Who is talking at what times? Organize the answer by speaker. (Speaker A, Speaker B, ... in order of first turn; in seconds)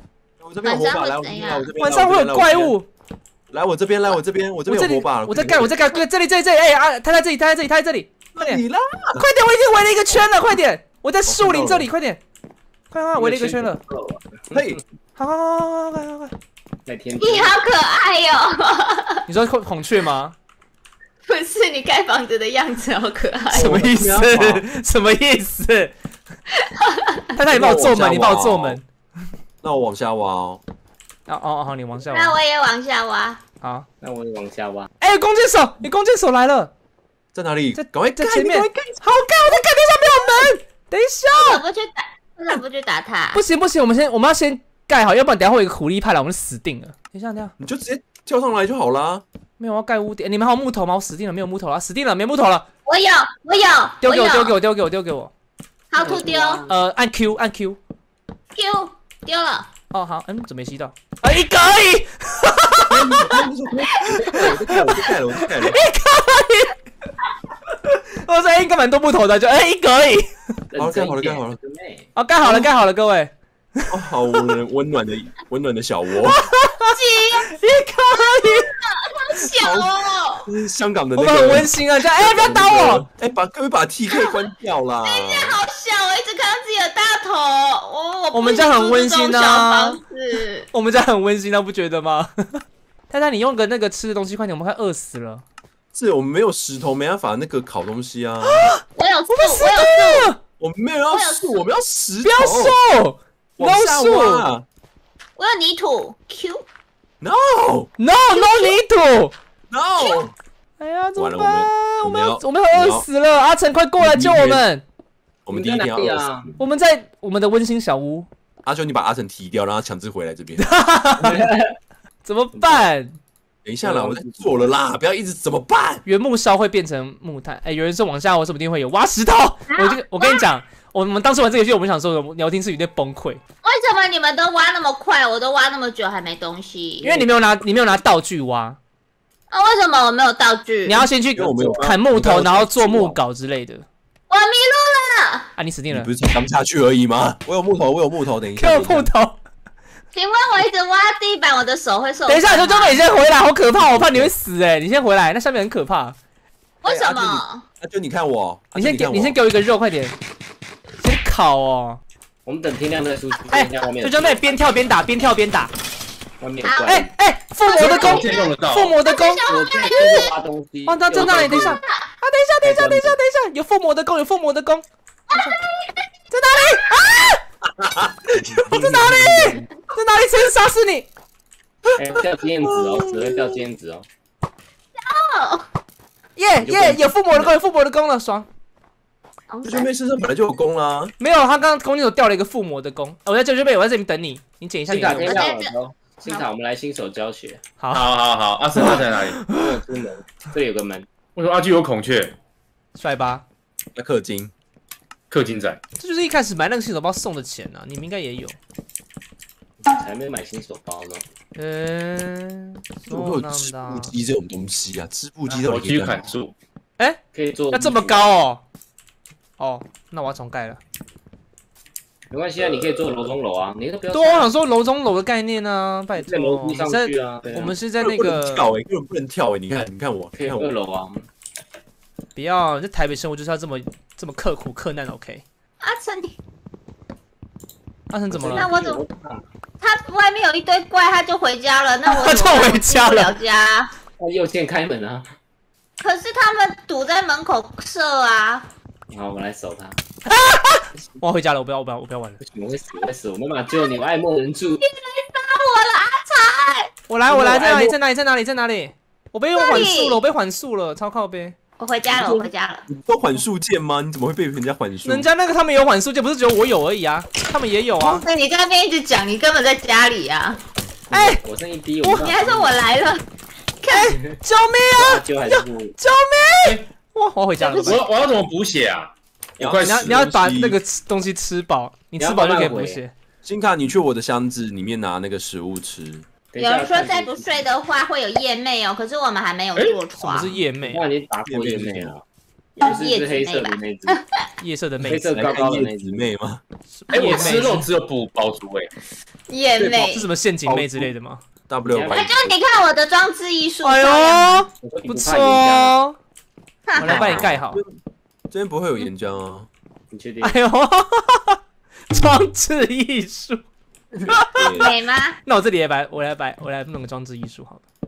Speaker A: 0.4-2.8, 3.5-5.8, 8.3-9.3, 11.2-11.9, 14.5-14.8, 23.5-24.6, 27.5-28.8, 29.6-30.6, 37.3-38.9, 47.6-49.2, 62.9-65.8, 70.8-71.6, 72.4-72.7, 73.9-76.4, 79.4-79.9, 80.4-85.6, 95.9-98.7, 100.6-102.8, 103.6-104.7, 107.2-107.9, 109.7-110.3, 111.2-113.1, 114.0-114.7, 115.5-116.5, 118.6-120.7, 123.6-126.0, 141.3-143.2, 145.9-149.1, 153.8-154.3, 156.9-159.4, 177.6-179.5, 181.9-183.4, 189.6-191.1, 203.9-204.5, 213.1-216.3, 222.6-222.9, 228.0-230.7, 262.1-265.3, 279.6-280.8, 283.4-286.2, 291.4-292.1, 295.3-296.6, 299.8-300.1, 300.6-301.1, 301.7-302.5, 306.9-307.9, 308.5-309.7, 314.1-314.9
Speaker B: 0.6-1.7, 17.2-19.2, 21.2-23.7, 26.5-27.3, 32.1-33.4, 41.3-43.4, 52.9-54.5, 55.9-56.6, 58.5-59.7, 76.9-77.6, 78.1-80.5, 84.1-84.5, 85.0-90.7, 98.9-100.3, 101.1-101.7, 105.4-106.6, 108.3-108.8, 129.7-130.4, 133.6-137.1, 139.5-141.1, 144.3-145.5, 150.1-153.0, 156.8-157.6, 166.6-167.0, 167.6-168.5, 169.0-170.3, 171.2-171.9, 175.3-176.1, 185.0-185.7, 189.5-189.9, 195.2-195.7, 235.8-236.3, 238.5-239.0, 239.8-243.9, 246.0-248.7, 254.8-256.9, 259.5-260.2, 261.8-262.8, 268.0-270.6, 272.1-273.2, 277.6-278.0, 286.6-290.5, 292.8-294.4, 299.5-300.3, 302.1-304.7, 306.9-307.5, 314.7-315.4
Speaker C: 1.8-2.9, 4.7-8.6, 9.2-12.2, 12.9-13.8, 15.2-16.3, 19.3-20.4, 23.5-25.9, 27.3-28.8, 31.3-32.4, 33.6-33.9, 35.0-36.7, 37.7-41.6, 43.3-47.5, 49.6-52.6, 54.0-55.3, 56.6-57.8, 59.9-62.9, 65.5-66.8, 67.8-70.3, 72.1-73.8, 76.3-76.9, 77.5-78.7, 81.2-83.0, 88.3-90.0, 90.7-95.4, 98.5-100.4, 102.2-104.4, 108.0-109.3, 110.8-114.8, 116.6-118.3, 120.6-121.5, 122.2-123.2, 126.0-133.4, 137.0-138.8, 140.8-143.8, 145.6-146.1, 148.6-149.4, 152.2-156.2, 158.7-160.2, 161.0-162.0, 163.5-165.7, 166.9-169.4, 170.8-175.5, 176.3-177.4, 178.6-181.1, 186.3-188.5, 191.2-195.5, 197.8-198.1, 198.8-199.0, 202.9-203.4, 206.0-208.6, 211.6-214.1, 217.0-218.6, 219.6-220.8, 224.1-228.7, 232.3-235.4, 238.1-238.7, 242.1-243.3, 250.3-252.4, 257.1-261.5, 265.0-268.2, 271.1-271.4, 272.0-272.3, 273.8-278.0, 279.8-283.1, 290.2-291.0, 294.6-295.3, 296.9-297.9, 300.0-301.4, 303.8-306.1, 306.9-307.8, 310.4-311.6, 312.1-313.6, 314.3-314.6, 315.4-317.8
Speaker D: 13.1-14.8, 16.9-17.6, 34.0-34.9, 56.0-56.7, 64.0-65.0, 70.7-72.1, 115.5-116.5, 121.2-121.7, 122.5-122.8, 123.8-124.7, 137.0-137.3, 162.4-164.6, 166.4-167.1, 169.4-171.8, 172.6-173.2, 181.9-184.1, 186.6-187.6, 194.8-197.6, 199.5-201.1, 209.8-211.2, 217.3-218.3, 222.3-224.5, 226.1-227.7, 230.3-231.3, 238.3-239.4, 244.2-245.3, 249.1-250.0, 252.4-254.8, 257.3-257.9, 271.1-272.8, 274.1-274.3, 274.9-275.9, 282.2-283.0, 286.5-287.7, 290.8-292.2, 292.8-294.2, 295.0-296.3, 301.9-302.3, 304.8-306.0, 310.1-310.6
Speaker E: 167.7-169.0, 197.9-199.4, 201.3-202.3, 205.3-205.8, 215.5-216.5, 277.6-280.1, 297.1-298.9